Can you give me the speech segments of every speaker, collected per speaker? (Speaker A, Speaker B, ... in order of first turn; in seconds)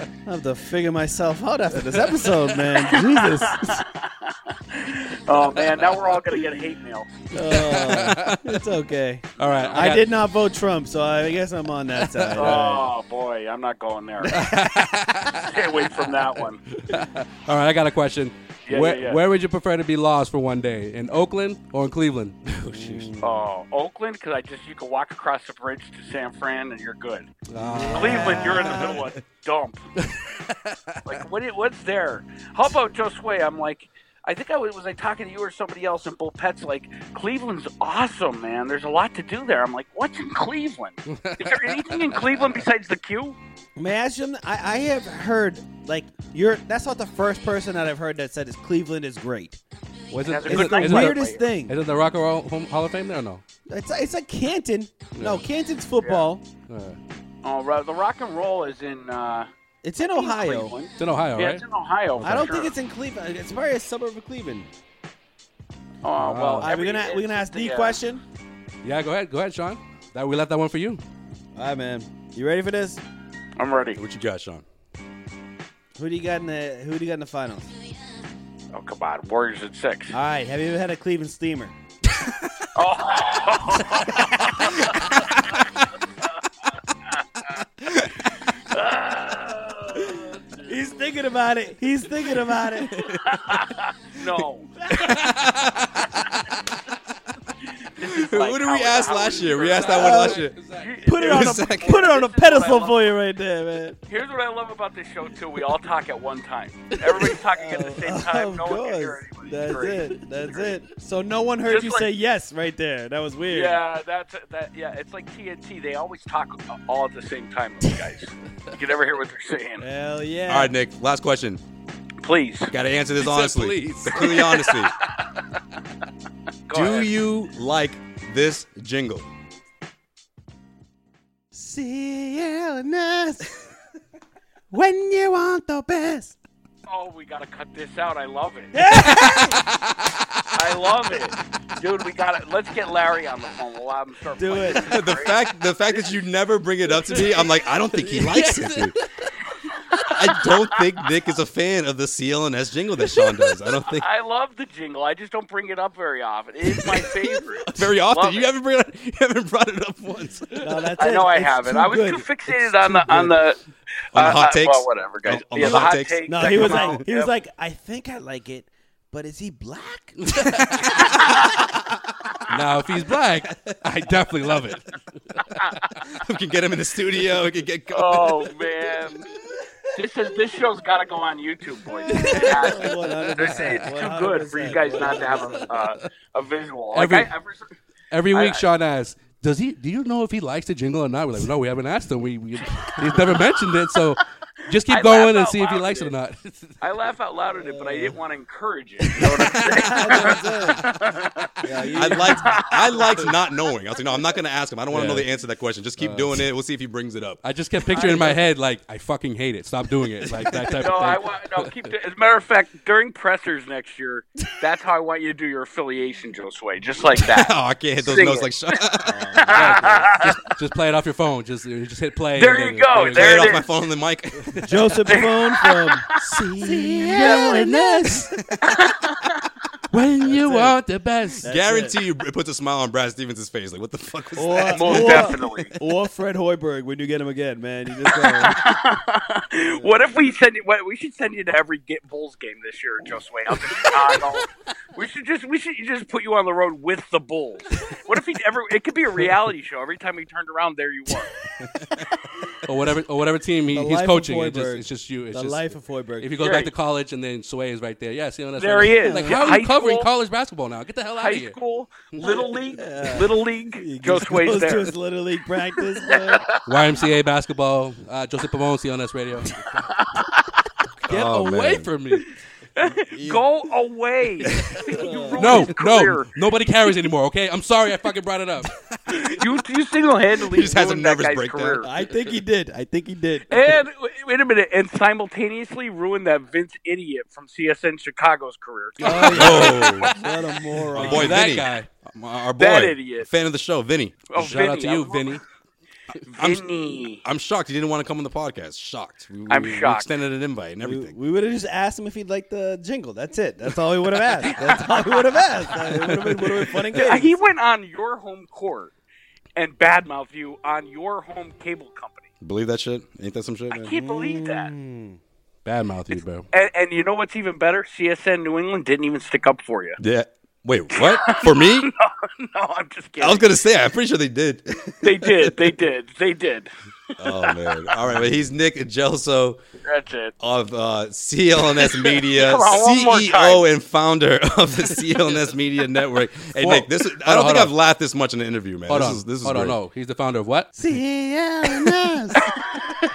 Speaker A: 0.2-3.8, 7.3-12.9, 22.7-23.4, 27.6-29.1, 43.8-49.6, 50.5-51.8, 53.7-56.4, 59.8-60.7, 62.2-64.7, 66.6-68.2, 71.5-73.0, 76.0-77.7, 80.1-81.7, 90.6-93.0, 94.8-95.2, 99.9-100.4, 101.0-104.0, 107.5-113.8, 119.8-120.7, 131.5-133.7, 134.7-136.4, 138.7-139.6, 144.3-144.9, 160.6-163.3, 165.6-170.3, 182.1-185.7, 197.5-198.1, 199.5-200.8, 201.6-202.5, 207.9-208.4, 219.0-220.1, 224.6-226.1, 226.6-227.9, 230.2-230.8, 231.4-231.9, 234.3-238.6, 239.6-240.2, 253.7-256.4, 259.0-259.4, 262.7-266.4, 274.9-275.6, 281.8-283.6, 289.0-291.5, 300.8-307.4, 313.9-315.2, 340.7-342.4
Speaker B: 2.1-2.4, 7.3-8.6, 9.4-10.0, 12.0-12.5, 14.3-16.1, 16.8-23.1, 27.5-29.0, 30.0-31.0, 41.1-42.2, 50.1-53.4, 55.1-55.4, 56.7-57.0, 61.0-61.6, 62.2-62.5, 66.2-66.7, 68.8-71.0, 99.8-100.9, 123.2-124.3, 148.0-148.9, 170.2-171.0, 172.5-174.9, 186.9-187.3, 188.1-196.8, 204.9-205.2, 206.0-206.4, 207.4-211.7, 219.5-223.6, 226.2-228.3, 229.9-231.4, 252.6-261.6, 266.6-269.9, 271.1-272.3, 275.4-278.7, 289.0-289.8, 290.9-292.0, 294.3-295.4, 315.6-316.4, 336.6-337.7, 338.9-340.7
Speaker C: 2.9-7.2, 9.4-9.9, 12.3-14.4, 15.4-16.6, 18.6-19.2, 23.2-27.3, 27.9-29.8, 31.0-43.4, 50.3-51.4, 56.0-56.3, 57.4-62.7, 66.0-68.0, 73.6-74.0, 78.7-80.2, 82.7-85.6, 87.1-90.7, 93.0-94.7, 97.9-103.1, 104.1-110.7, 111.7-112.1, 113.5-119.8, 122.2-122.7, 124.1-124.9, 126.7-127.1, 136.9-138.8, 140.5-145.4, 153.9-158.5, 161.0-163.6, 164.1-167.3, 171.0-171.7, 175.4-175.8, 177.9-179.3, 179.9-187.7, 188.3-188.6, 194.9-196.1, 196.8-201.5, 202.2-203.1, 210.8-218.8, 219.4-220.3, 222.3-223.6, 225.1-226.0, 227.0-227.6, 228.7-229.3, 234.7-235.7, 238.2-251.4, 256.4-256.7, 258.6-260.1, 261.2-264.9, 266.0-266.6, 269.9-270.5, 272.8-276.3, 279.1-281.9, 283.5-290.1, 292.6-293.3, 294.3-295.4, 296.2-297.2, 299.5-300.1, 304.5-305.4, 306.9-308.9, 309.6-312.3, 313.7-314.7, 316.5-320.0, 320.9-323.5, 325.0-328.0, 329.9-330.3, 331.7-333.7
Speaker D: 74.0-74.6, 95.0-96.0, 98.0-100.6, 101.2-102.0, 120.5-121.6, 122.7-124.9, 126.7-129.2, 144.8-148.9, 150.1-154.0, 157.7-160.5, 164.1-166.9, 176.1-178.4, 201.9-207.4, 217.2-219.2, 222.9-224.7, 231.5-235.7, 251.6-252.1, 271.1-271.9, 273.0-273.4, 280.4-281.8, 289.3-290.1, 291.0-294.3, 296.4-296.6, 297.2-301.1, 312.4-313.9, 320.0-321.9, 323.2-325.6, 327.2-329.6, 330.4-339.8